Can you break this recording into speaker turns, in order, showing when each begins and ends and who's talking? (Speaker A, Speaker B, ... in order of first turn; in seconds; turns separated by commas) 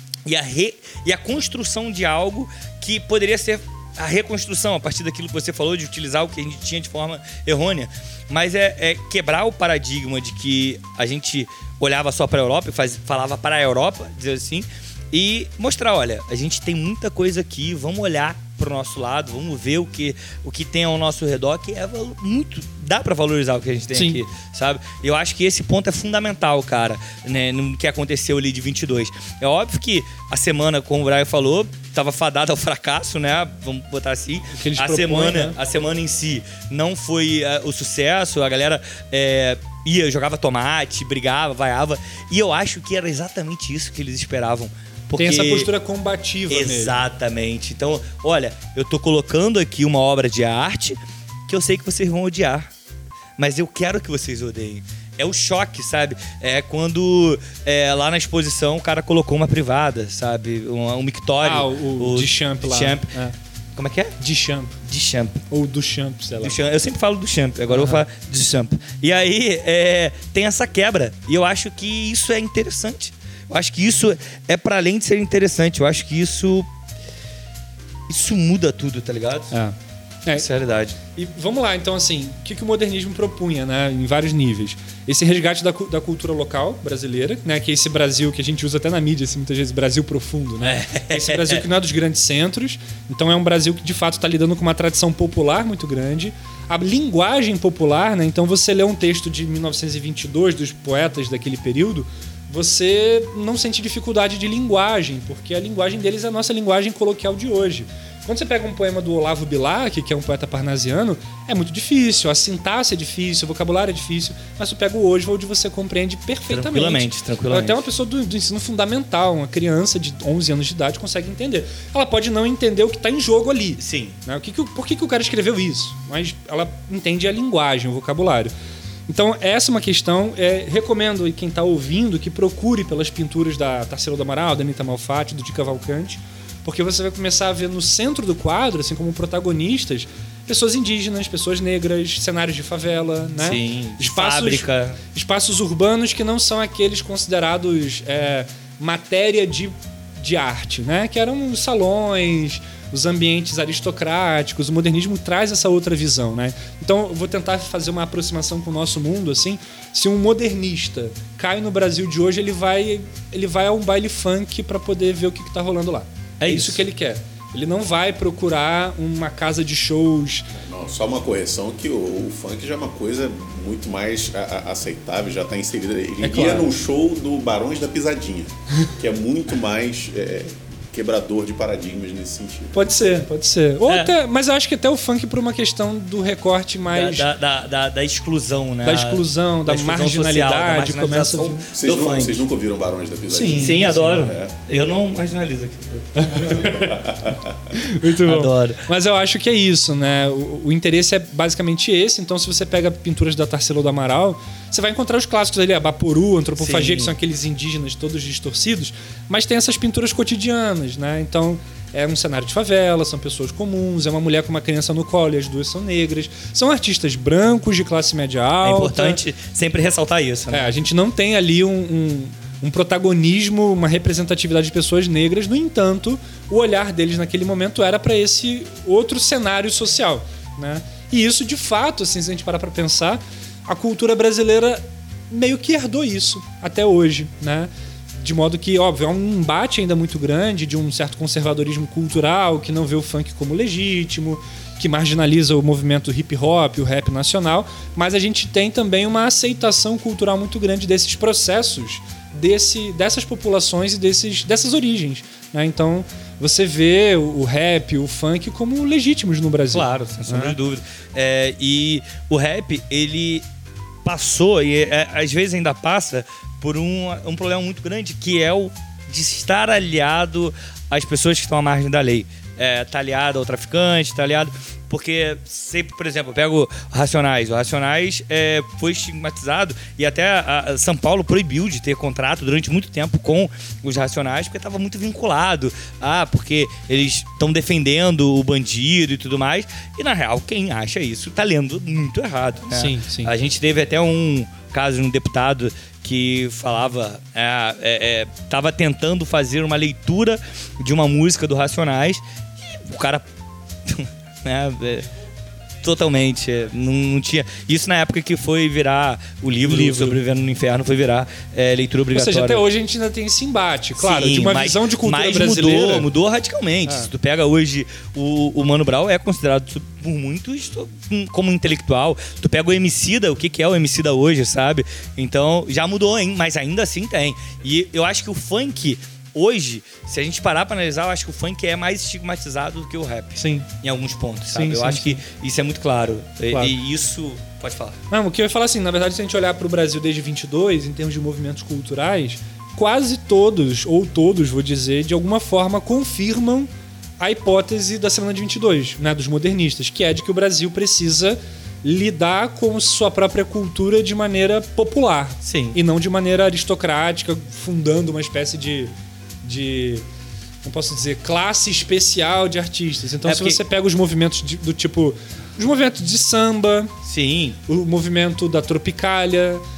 Speaker A: 0.3-45.7, Speaker B: 23.9-24.2, Speaker B: 34.6-35.6, Speaker B: 45.2-47.0, Speaker A: 46.5-52.7, Speaker A: 53.4-63.1, Speaker B: 61.4-63.4, Speaker A: 63.8-64.1, Speaker B: 64.2-64.8, Speaker A: 64.8-65.4, Speaker B: 65.5-66.6, Speaker A: 66.4-76.7, Speaker B: 67.7-68.0, Speaker A: 78.1-79.5, Speaker B: 79.5-80.5, Speaker A: 80.3-81.0, Speaker B: 81.2-128.5, Speaker A: 90.6-91.6, Speaker A: 116.5-117.8, Speaker A: 123.8-124.2, Speaker B: 129.1-170.5, Speaker A: 143.4-145.0, Speaker A: 166.4-166.8, Speaker C: 170.6-182.8, Speaker B: 176.2-176.7, Speaker B: 182.7-187.3, Speaker A: 183.9-184.1, Speaker A: 186.9-192.4, Speaker B: 188.8-191.7, Speaker C: 191.7-194.5, Speaker B: 193.3-194.3, Speaker A: 193.6-196.7, Speaker B: 196.2-197.2, Speaker C: 196.9-197.4, Speaker B: 197.7-219.2, Speaker A: 198.1-198.8, Speaker A: 206.6-207.1, Speaker A: 218.6-220.7, Speaker B: 220.5-260.6, Speaker A: 259.7-263.4, Speaker A: 264.1-303.3, Speaker B: 292.7-293.3, Speaker A: 303.9-305.1, Speaker A: 305.8-312.6, Speaker B: 309.6-310.2, Speaker B: 312.1-316.1, Speaker A: 314.0-338.0, Speaker B: 333.4-333.7, Speaker B: 334.5-335.2, Speaker B: 336.5-336.8, Speaker B: 338.1-358.9, Speaker A: 355.4-355.8, Speaker B: 359.4-360.0, Speaker B: 360.6-366.9, Speaker A: 363.2-363.6, Speaker A: 367.1-367.6, Speaker B: 367.7-369.6